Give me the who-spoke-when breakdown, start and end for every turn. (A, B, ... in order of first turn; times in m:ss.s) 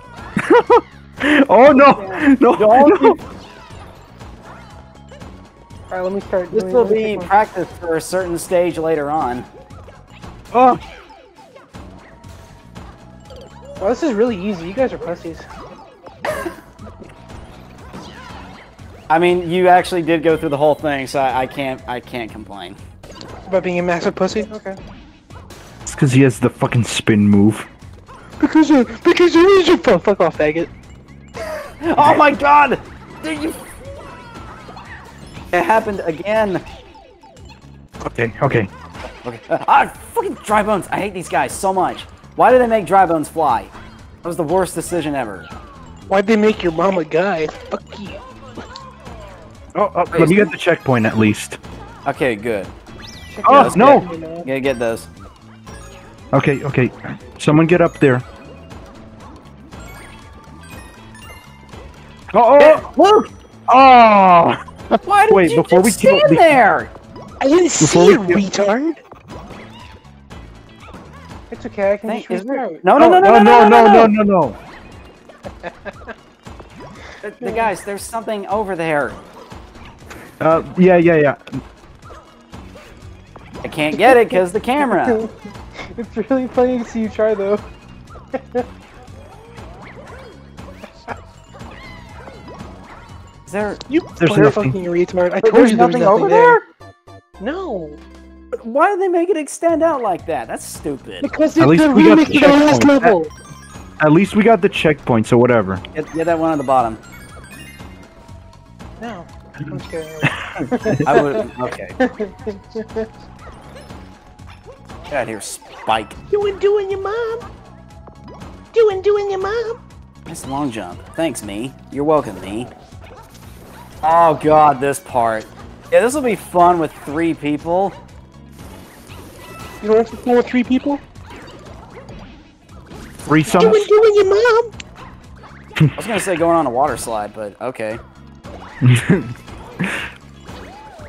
0:00.4-0:03.2 A
0:01.8-0:03.2 B
0:05.9-0:07.3 C
0:06.5-0:09.5 B
0:10.5-0:10.8 A
0:13.8-0:15.4 C
0:19.1-0:22.8 B
0:23.5-0:24.8 C
0:25.9-0:27.7 A
0:28.4-0:30.7 C
0:31.8-0:33.7 B
0:35.5-0:36.6 B
0:38.0-0:38.7 A
0:39.2-0:43.7 B
0:44.2-0:45.5 B
0:46.1-0:48.2 C
0:49.8-0:51.6 A
0:50.1-0:50.5 B
0:52.1-0:52.7 B
0:53.3-0:54.5 C
0:53.4-0:55.1 B
0:53.4-0:54.1 A
0:56.3-0:58.2 A
1:02.3-1:02.8 A
1:02.6-1:03.3 B
1:03.7-1:04.6 A
1:05.0-1:06.9 B
1:05.3-1:06.4 A
1:07.4-1:09.0 C
1:07.8-1:08.4 A
1:11.5-1:12.8 C
1:12.1-1:14.1 B
1:12.9-1:14.6 A
1:15.6-1:16.1 C
1:17.2-1:19.2 B
1:17.4-1:17.7 C
1:20.4-1:21.4 A
1:23.6-1:25.2 B
1:23.9-1:27.6 C
1:28.3-1:28.6 C
1:33.5-1:33.8 B
1:33.9-1:36.6 C
1:34.2-1:34.8 A
1:35.4-1:36.6 B
1:37.4-1:38.0 C
1:38.6-1:41.3 B
1:41.2-1:43.3 C
1:41.6-1:43.2 A
1:44.0-1:45.8 A
1:45.9-1:47.0 B
1:49.0-1:51.4 C
1:50.2-1:51.1 A
1:51.0-1:52.0 B
1:52.0-1:53.1 C
1:55.1-1:56.2 B
1:56.3-1:57.4 C
1:58.7-1:59.8 C
2:00.3-2:02.7 B
2:04.0-2:08.0 B
2:09.8-2:11.0 C
2:13.2-2:13.9 A
2:13.4-2:14.7 C
2:16.0-2:18.0 B
2:18.8-2:20.0 A